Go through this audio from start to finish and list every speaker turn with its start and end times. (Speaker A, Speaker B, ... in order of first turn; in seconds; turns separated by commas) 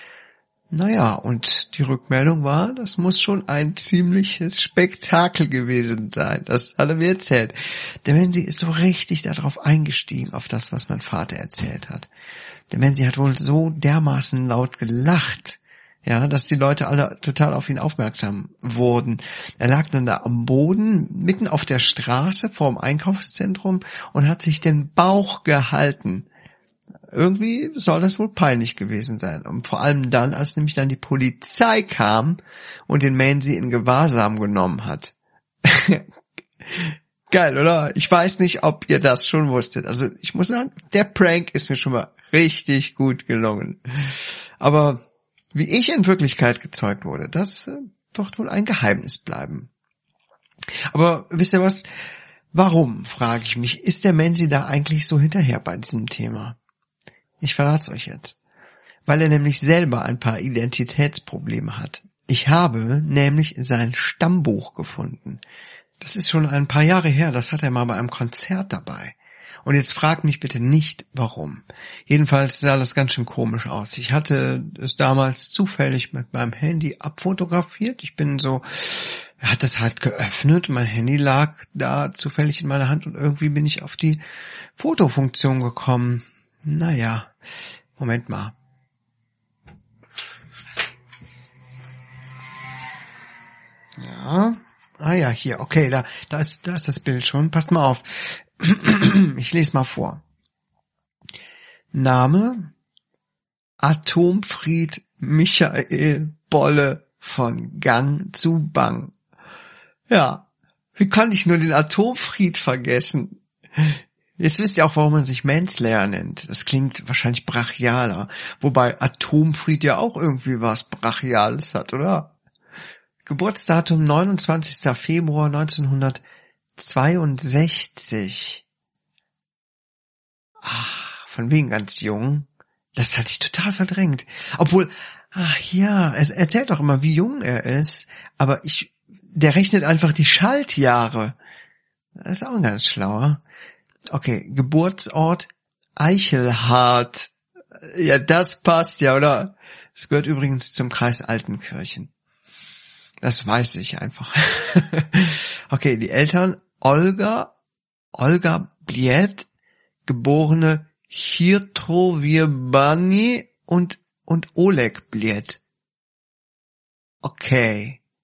Speaker A: 0.7-12.1, Speaker A: 12.7-26.3, Speaker A: 27.1-36.1, Speaker A: 36.6-49.7, Speaker A: 50.7-51.9, Speaker A: 52.5-56.6, Speaker A: 57.4-58.4, Speaker A: 59.1-65.4, Speaker A: 66.0-84.2, Speaker A: 84.8-87.4, Speaker A: 88.0-88.6, Speaker A: 94.0-100.2, Speaker A: 101.9-102.7, Speaker A: 103.8-109.1, Speaker A: 110.1-122.3, Speaker A: 123.2-126.2, Speaker A: 126.8-128.6, Speaker A: 130.6-141.4, Speaker A: 142.2-143.4, Speaker A: 144.1-152.1, Speaker A: 153.2-157.6, Speaker A: 158.2-159.5, Speaker A: 160.1-165.6, Speaker A: 167.2-168.0